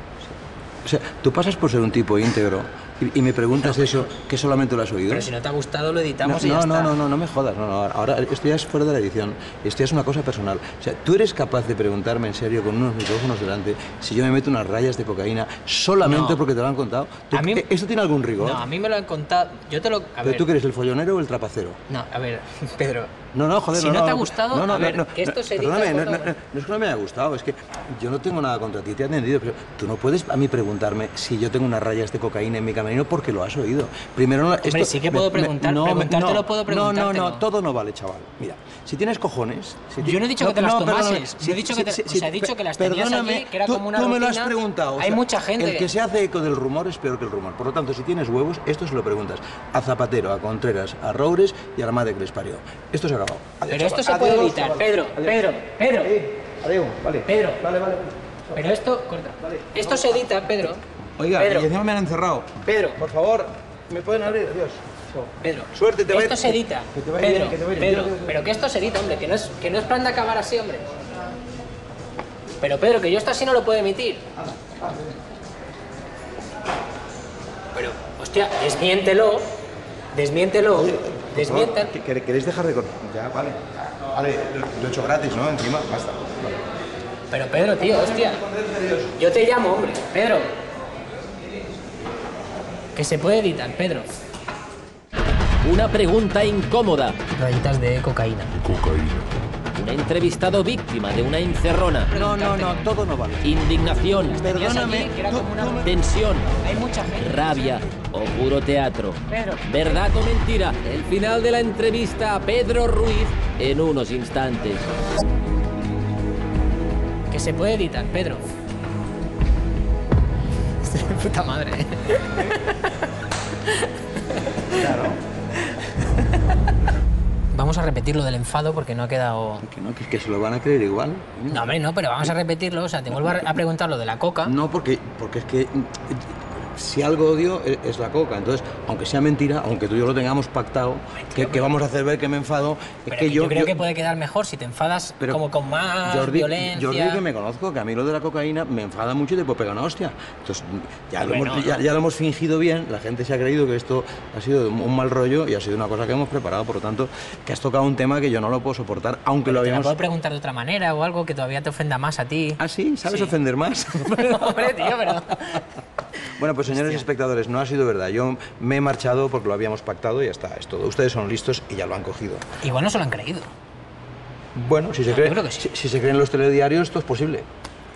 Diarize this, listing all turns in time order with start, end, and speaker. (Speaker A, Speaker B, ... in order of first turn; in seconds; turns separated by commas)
Speaker A: 0.8-5.3, Speaker B: 3.6-4.1, Speaker B: 5.1-6.9, Speaker A: 6.2-18.6, Speaker B: 16.0-16.4, Speaker B: 17.3-17.6, Speaker B: 18.4-20.5, Speaker A: 20.2-21.8, Speaker B: 21.9-23.1, Speaker A: 23.3-58.3, Speaker B: 23.7-26.3, Speaker B: 34.6-37.4, Speaker B: 40.0-45.9, Speaker B: 53.7-56.1, Speaker B: 57.2-57.6, Speaker B: 58.5-60.8, Speaker A: 59.5-60.3, Speaker A: 61.2-65.0, Speaker B: 61.4-61.7, Speaker B: 62.6-63.0, Speaker B: 65.3-70.9, Speaker A: 65.7-68.4, Speaker B: 72.6-74.2, Speaker A: 74.8-75.1, Speaker B: 77.7-79.4, Speaker B: 80.1-81.9, Speaker A: 80.7-86.6, Speaker B: 87.3-88.4, Speaker A: 88.5-89.1, Speaker B: 89.1-90.5, Speaker B: 92.9-94.1, Speaker C: 95.6-97.2, Speaker B: 97.3-99.2, Speaker C: 99.7-102.1, Speaker B: 102.1-102.8, Speaker A: 102.1-103.6, Speaker C: 103.4-104.4, Speaker B: 104.2-105.9, Speaker A: 104.3-106.0, Speaker C: 105.8-106.6, Speaker B: 106.6-107.8, Speaker C: 107.2-114.9, Speaker B: 109.3-110.0, Speaker B: 117.3-118.4, Speaker B: 120.8-123.0, Speaker A: 124.7-125.2, Speaker B: 127.5-129.6, Speaker A: 129.6-132.3, Speaker B: 131.5-134.5, Speaker A: 133.2-133.5, Speaker A: 134.4-143.8, Speaker B: 141.2-141.7, Speaker B: 143.1-147.2, Speaker A: 146.0-160.0, Speaker B: 151.2-151.8, Speaker B: 159.4-163.3, Speaker A: 162.6-165.6, Speaker B: 164.1-165.6, Speaker A: 166.2-172.4, Speaker B: 166.7-167.1, Speaker B: 172.6-173.5, Speaker A: 174.5-177.5, Speaker B: 175.1-175.7